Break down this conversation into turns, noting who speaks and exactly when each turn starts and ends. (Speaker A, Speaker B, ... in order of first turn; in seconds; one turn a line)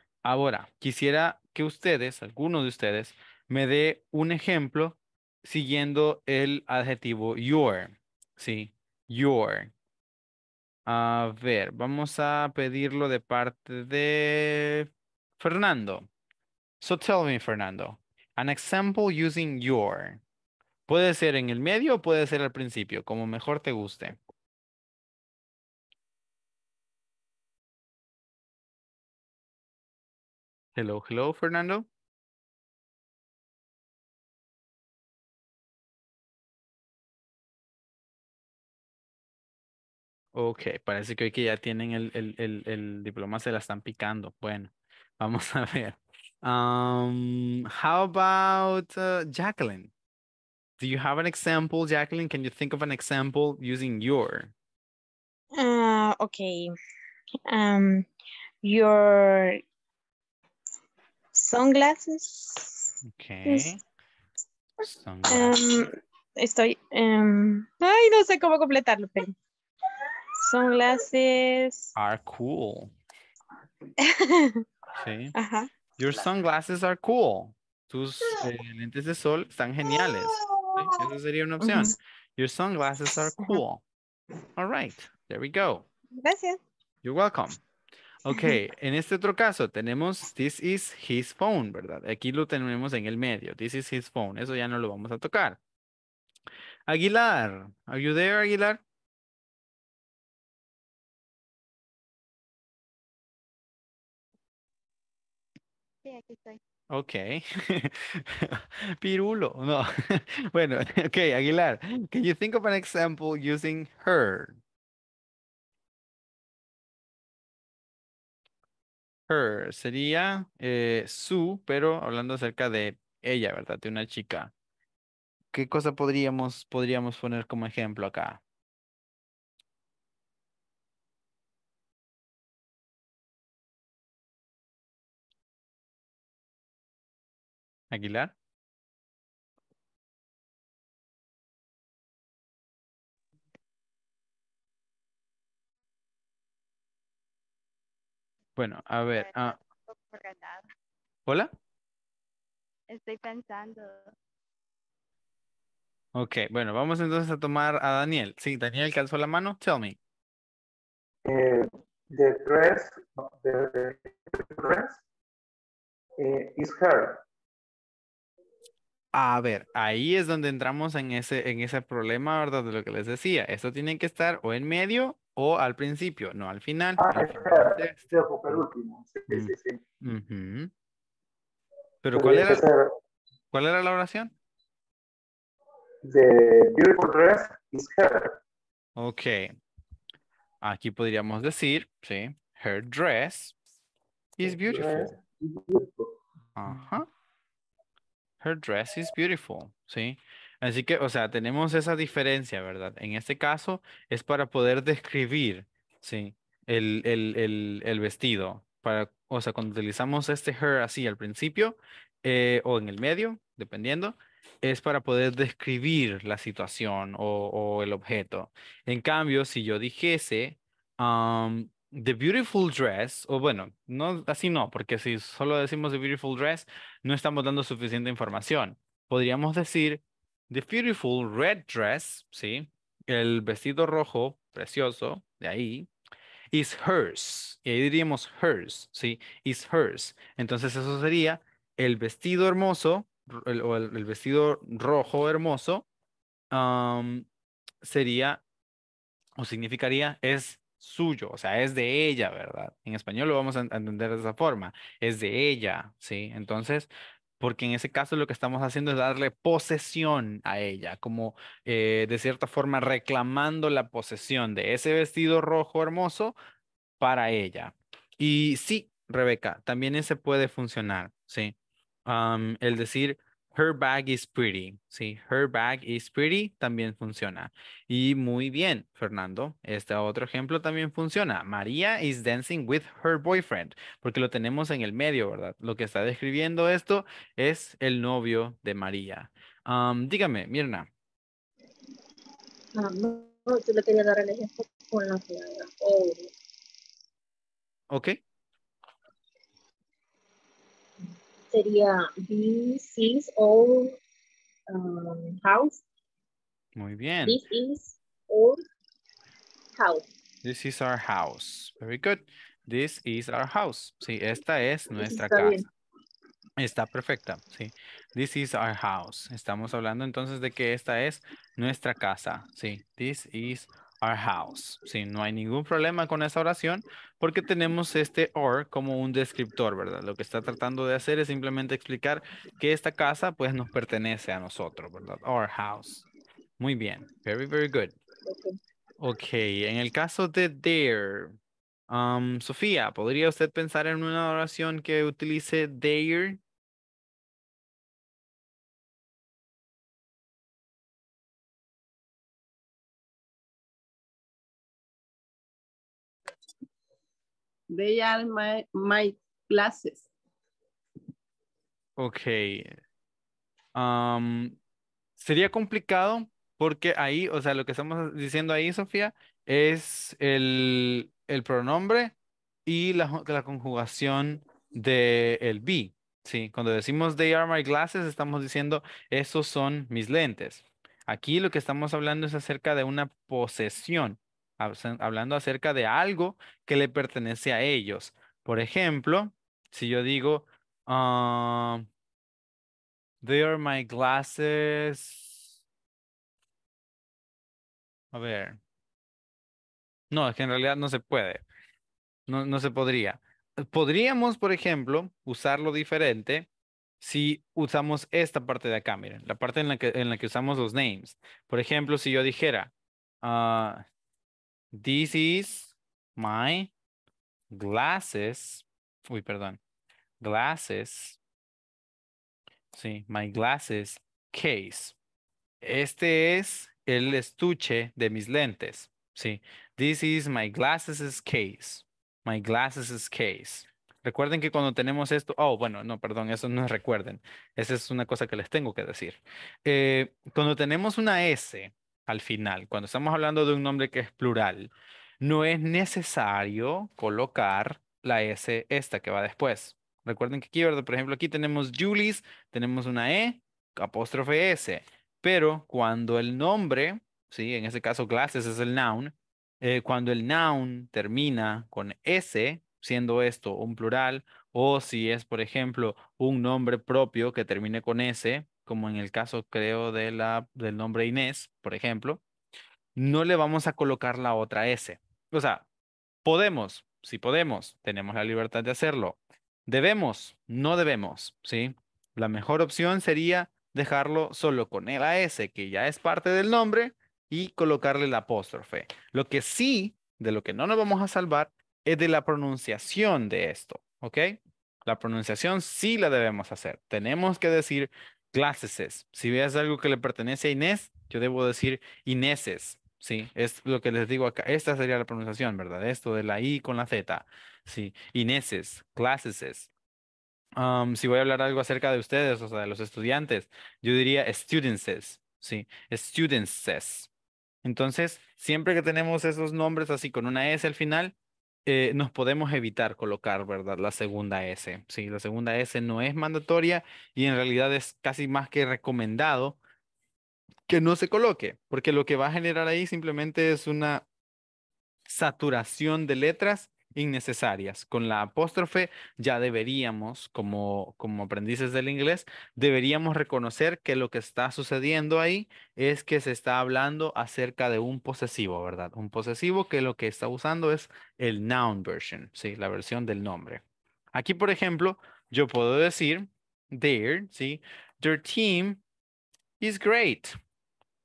Speaker A: 0.2-9.7
Speaker A: 10.9-16.1
Speaker A: 16.8-20.2
Speaker A: 20.9-24.2
Speaker A: 30.8-31.9
Speaker A: 40.4-49.9
Speaker A: 50.8-54.5
Speaker B: 55.6-56.8
Speaker B: 57.5-58.1
Speaker B: 58.6-59.6
Speaker B: 61.4-62.9
Speaker A: 63.0-63.8
Speaker B: 63.5-63.7
Speaker A: 64.8-65.6
Speaker B: 65.3-69.3
Speaker B: 70.4-71.9
Speaker A: 72.0-72.9
Speaker B: 74.0-74.6
Speaker A: 75.0-75.3
Speaker B: 75.3-75.7
Speaker A: 76.0-83.8
Speaker B: 79.9-81.0
Speaker B: 81.6-81.9
Speaker A: 84.6-85.9
Speaker B: 86.2-86.6
Speaker A: 87.0-87.6
Speaker A: 88.3-95.6
Speaker B: 88.3-88.6
Speaker A: 96.9-98.8
Speaker C: 106.0-106.6
Speaker A: 106.9-114.6
Speaker A: 119.3-124.5
Speaker A: 125.5-128.4
Speaker A: 137.9-138.3
Speaker A: 148.6-149.6
Speaker C: 149.1-150.7
Speaker A: 151.3-151.5
Speaker C: 152.9-154.1
Speaker A: 156.2-160.0
Speaker D: 161.2-165.0
Speaker D: 166.2-167.2
Speaker A: 169.1-178.7
Speaker D: 177.0-179.8
Speaker A: 179.3-180.7
Speaker A: 182.0-182.7
Speaker D: 182.1-182.9
Speaker A: 183.5-184.3
Speaker D: 186.0-188.4
Speaker A: 189.0-189.5
Speaker A: 190.6-193.5
Speaker A: 194.4-195.1
Speaker D: 194.4-196.1
Speaker A: 196.6-197.1
Speaker A: 198.4-235.9
Speaker A: 236.5-245.9
Speaker A: 246.5-247.3
Speaker A: 247.8-248.4
Speaker A: 249.4-256.9
Speaker A: 257.4-266.4
Speaker A: 267.0-271.6
Speaker A: 272.1-290.9
Speaker E: 292.7-296.3
Speaker A: 297.9-298.2
Speaker E: 301.5-304.0
Speaker E: 304.7-305.8
Speaker A: 306.8-307.4
Speaker E: 307.3-308.6
Speaker E: 309.8-310.1
Speaker A: 310.4-315.7
Speaker E: 314.9-315.7
Speaker A: 316.6-336.1
Speaker A: 336.6-337.9
Speaker E: 338.3-338.6
Speaker A: 339.0-341.4
Speaker A: 341.9-346.4
Speaker F: 357.8-359.9
Speaker A: 362.0-362.8
Speaker A: 363.8-364.6
Speaker A: 365.2-372.1
Speaker A: 372.7-391.9
Speaker A: 393.2-395.5
Speaker A: 398.1-398.6
Speaker A: 400.1-401.4
Speaker A: 402.3-406.5
Speaker A: 407.0-412.7
Speaker A: 413.2-413.8
Speaker A: 414.7-416.7
Speaker A: 417.5-419.6
Speaker A: 420.2-421.2
Speaker A: 422.7-425.0
Speaker A: 425.6-472.2
Speaker A: 473.0-475.6
Speaker A: 476.2-509.7
Speaker A: 510.6-517.1
Speaker A: 517.6-521.1
Speaker A: 521.7-529.6
Speaker A: 530.7-534.0
Speaker A: 535.1-553.6
Speaker A: 554.1-558.8
Speaker A: 559.6-560.4